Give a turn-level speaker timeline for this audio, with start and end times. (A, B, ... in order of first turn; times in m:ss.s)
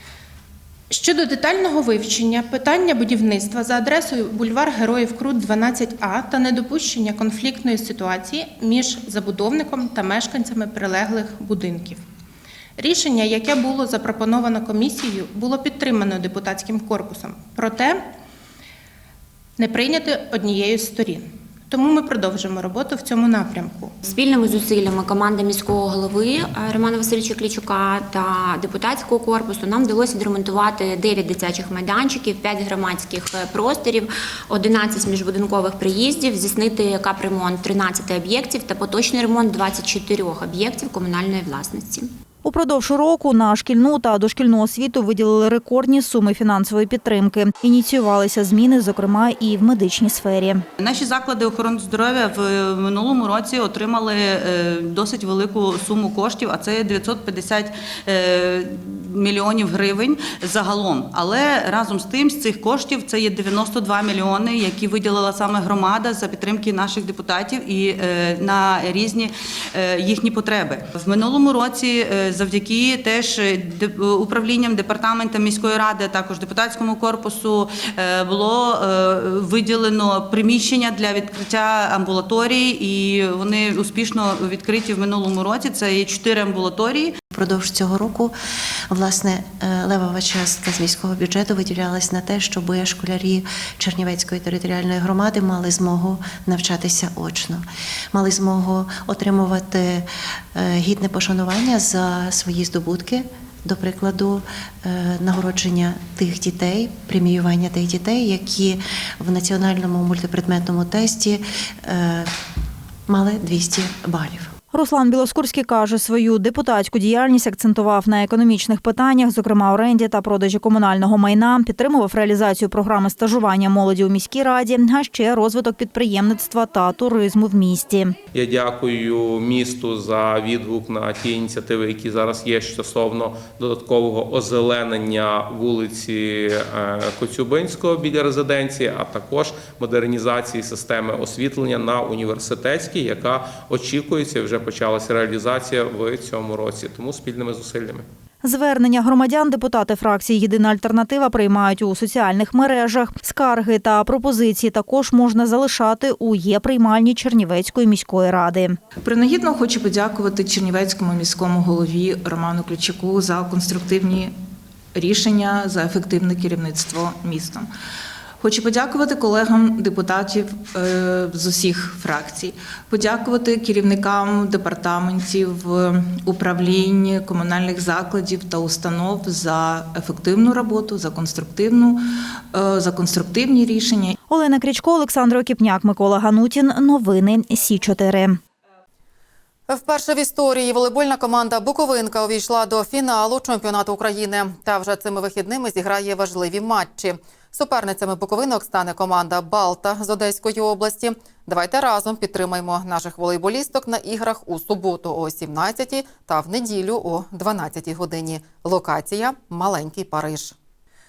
0:00.9-0:12.0 A
0:12.8-0:18.0 A
0:19.6-0:23.9 A
0:24.1-0:42.1 B
0:42.4-0:50.6 C
0:50.8-1:09.3 D
1:09.8-1:27.1 D
1:27.3-1:28.4 E
1:28.9-1:52.3 E
1:53.1-1:54.5 E
1:54.7-2:08.1 C
2:08.4-2:28.0 F
2:28.4-2:38.8 C
2:39.0-2:44.3 G
2:45.0-2:47.7 G
2:48.4-3:02.0 G
3:02.5-3:04.1 G
3:04.3-3:08.4 C
3:09.7-3:30.6 H